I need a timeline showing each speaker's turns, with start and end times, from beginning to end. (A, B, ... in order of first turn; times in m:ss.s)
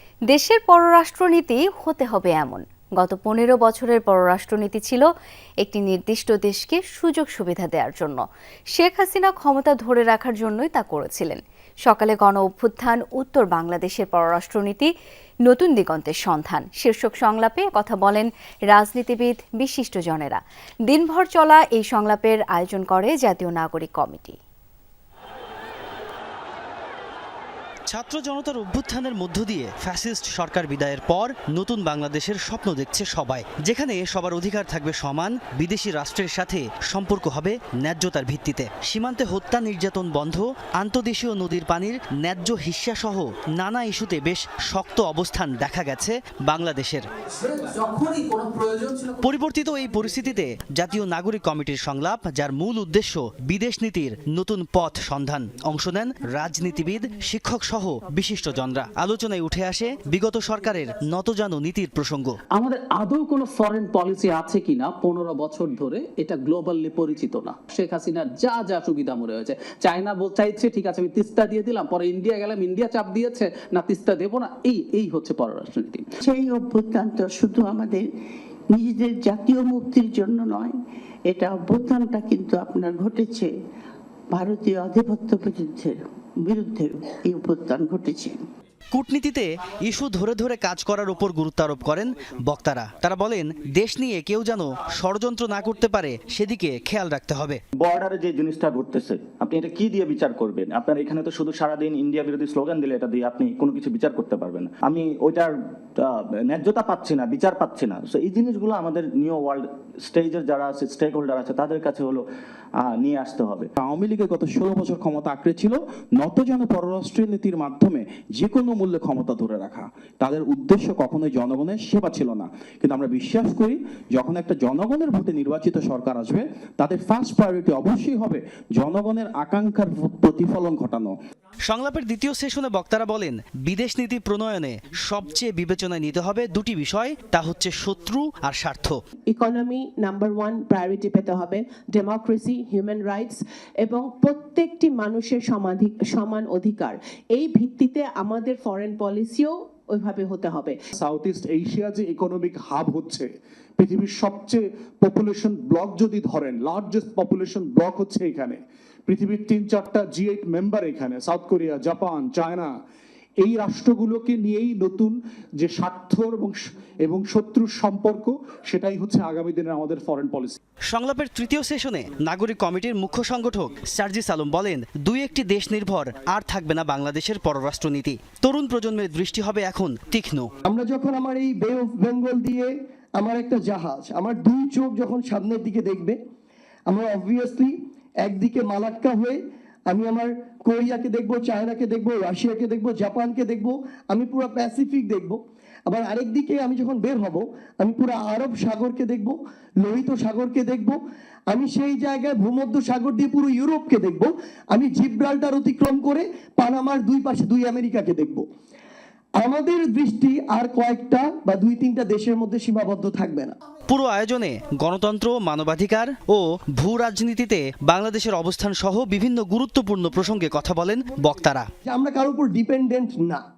0:00.3-0:05.1 A
0:05.6-0:08.2 A
0:08.8-0:14.9 A
0:15.4-0:24.4 A
0:27.9-0:47.1 B
0:47.4-0:49.2 C
0:49.2-1:02.4 B
1:02.6-1:16.1 C
1:16.2-1:18.1 D
1:18.7-1:20.8 D
1:21.3-1:23.5 D
1:24.3-1:28.4 D
1:28.9-1:37.6 B
1:37.8-1:45.5 E
1:46.0-1:52.2 E
1:52.9-1:53.7 E
1:53.8-2:11.1 F
2:11.7-2:19.0 B
2:19.3-2:30.8 G
2:30.9-2:42.8 H
2:43.4-2:50.6 H
2:50.9-3:00.5 B
3:00.7-3:06.2 I
3:06.9-3:09.4 I
3:09.9-3:21.0 I
3:21.5-3:28.4 I
3:29.4-3:33.6 I
3:33.9-3:41.7 B
3:41.9-3:43.4 I